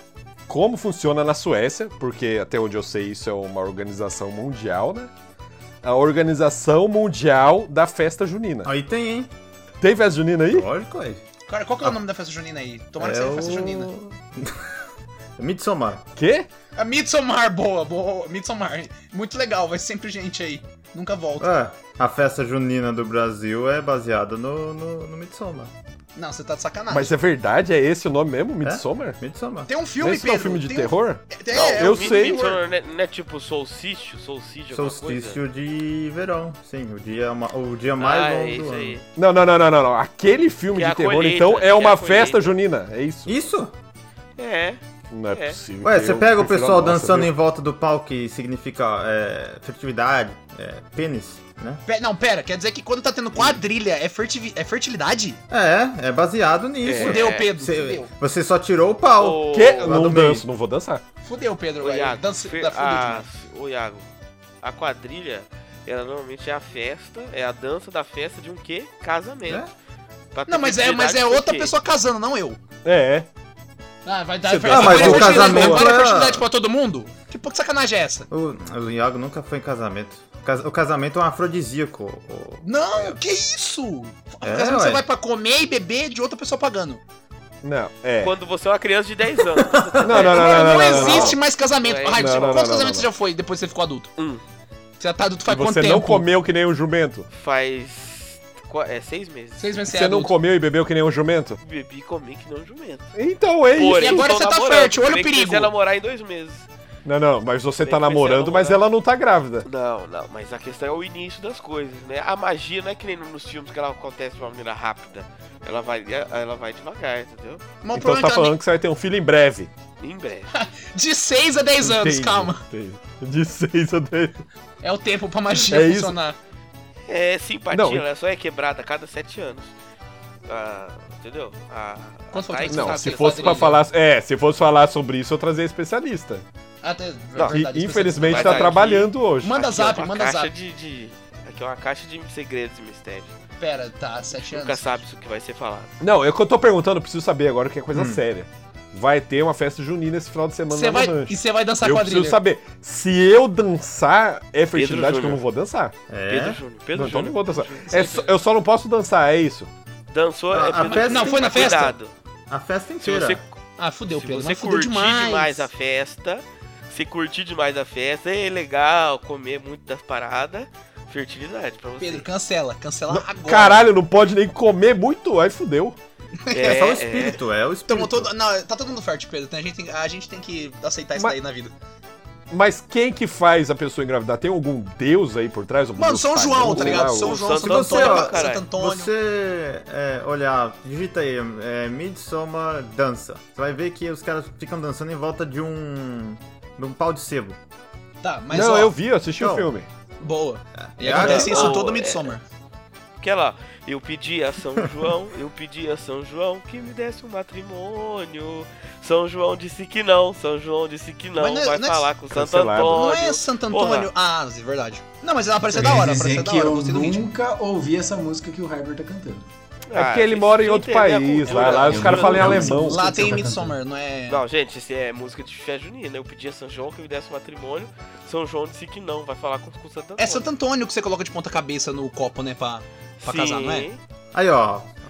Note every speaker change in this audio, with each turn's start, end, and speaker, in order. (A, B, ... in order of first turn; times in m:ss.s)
0:00.5-0:05.1 A
0:05.8-0:08.7 A
0:08.6-0:09.3 B
0:09.8-0:10.7 A
0:10.5-0:11.2 B
0:11.5-0:13.9 C
0:13.0-0:14.7 B
0:15.4-0:16.1 B
0:16.2-0:16.5 A
0:16.8-0:21.5 C
0:21.4-0:25.7 B
0:26.1-0:27.1 C
0:26.9-0:29.2 A
0:28.6-0:29.7 B
0:29.7-0:32.6 C
0:30.0-0:32.5 A
0:31.5-0:35.4 D
0:34.7-0:39.0 B
0:38.0-0:39.0 D
0:39.2-0:43.3 A
0:40.7-0:42.5 D
0:43.2-0:43.7 B
0:44.4-0:44.8 D
0:45.1-0:47.3 A
0:45.3-0:45.6 D
0:45.8-0:51.8 B
0:51.8-0:55.4 C
0:53.3-0:53.6 B
0:55.5-1:00.4 B
0:56.8-0:57.4 D
0:57.0-0:58.1 C
0:59.2-0:59.9 D
0:59.5-1:01.0 A
1:01.2-1:03.2 C
1:01.8-1:04.0 D
1:04.6-1:09.6 D
1:09.4-1:09.7 B
1:10.3-1:11.7 D
1:10.5-1:12.6 C
1:12.8-1:13.3 A
1:14.0-1:18.3 C
1:14.4-1:15.9 A
1:14.7-1:16.4 B
1:18.3-1:23.2 B
1:22.6-1:27.0 C
1:24.4-1:25.0 B
1:27.6-1:28.3 A
1:28.2-1:32.7 D
1:29.5-1:30.4 B
1:30.0-1:31.4 A
1:30.2-1:34.1 C
1:32.1-1:33.1 A
1:34.2-1:34.4 D
1:35.0-1:36.2 C
1:35.5-1:37.3 A
1:37.3-1:39.6 D
1:39.6-1:40.3 C
1:39.9-1:41.6 A
1:41.6-1:43.1 D
1:43.1-1:44.3 A
1:43.7-1:46.7 D
1:44.0-1:45.7 C
1:47.0-1:49.6 A
1:47.8-1:48.8 D
1:49.6-1:57.6 D
1:57.8-1:58.5 C
1:57.9-1:59.7 A
2:00.0-2:00.5 D
2:00.5-2:02.6 C
2:01.8-2:04.4 A
2:04.8-2:06.4 C
2:05.7-2:06.2 A
2:07.1-2:09.7 D
2:07.7-2:08.0 A
2:10.5-2:13.7 D
2:12.3-2:13.8 C
2:12.7-2:16.4 A
2:16.8-2:20.5 C
2:17.4-2:19.6 A
2:18.2-2:23.3 D
2:23.6-2:25.0 C
2:24.4-2:25.9 D
2:26.0-2:35.9 A
2:27.9-2:28.2 B
2:30.7-2:32.4 C
2:34.7-2:35.4 D
2:36.1-2:36.6 B
2:36.2-2:37.9 D
2:36.9-2:39.7 A
2:37.7-2:38.3 C
2:40.1-2:42.1 D
2:40.5-2:41.9 B
2:40.8-2:41.9 C
2:42.5-2:43.4 B
2:43.0-2:43.6 D
2:43.8-2:45.7 C
2:44.1-2:52.2 D
2:52.0-2:53.9 C
2:53.1-2:56.0 A
2:56.4-2:56.9 C
2:56.5-2:57.4 D
2:56.6-2:58.3 B
2:57.9-3:01.7 C
3:02.5-3:07.4 A
3:06.0-3:09.1 C
3:06.7-3:08.6 D
3:07.4-3:17.6 B
3:18.2-3:18.9 C
3:18.5-3:19.9 A
3:19.3-3:19.7 B
3:20.2-3:22.4 C
3:20.8-3:21.8 B
3:21.1-3:22.4 D
3:21.2-3:21.5 A
3:23.2-3:34.1 D
3:31.4-3:32.1 C
3:32.3-3:33.0 A
3:32.9-3:37.3 C
3:35.7-3:39.4 E
3:39.9-3:42.6 D
3:39.9-3:43.2 A
3:41.5-3:44.4 C
3:41.9-3:43.8 E
3:44.3-3:50.5 D
3:50.2-3:53.9 C
3:53.2-3:54.0 D
3:54.3-3:54.9 B